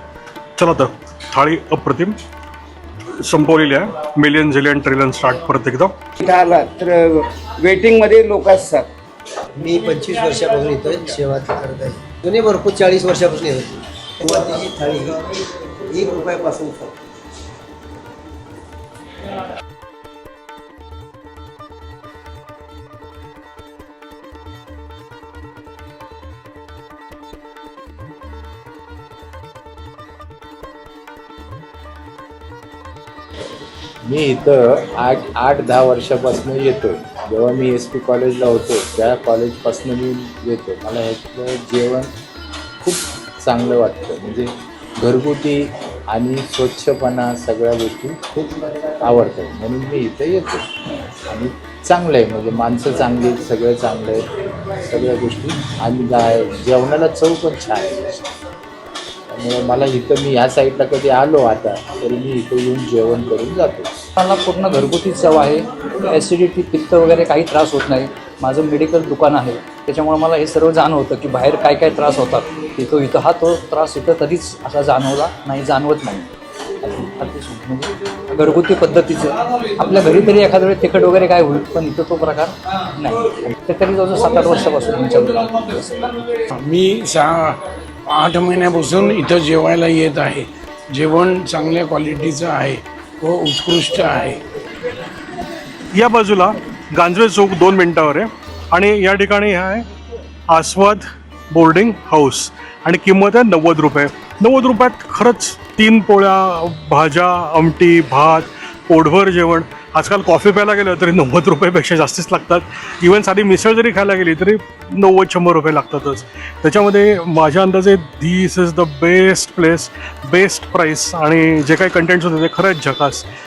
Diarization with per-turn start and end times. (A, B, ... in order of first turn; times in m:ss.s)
0:00.6-0:02.2 A
0:03.2-0:06.0 A
0:06.2-0:08.9 B
0:09.6-0:15.2 C
0:15.9-0:16.9 C
0:34.0-0:42.1 D
0:42.8-0:50.7 D
0:51.3-0:54.2 D
0:54.8-0:58.2 D
0:59.3-1:03.9 D
1:04.2-1:16.3 E
1:16.8-1:26.2 E
1:26.6-1:34.4 F
1:35.9-1:39.9 A
1:40.5-2:03.3 A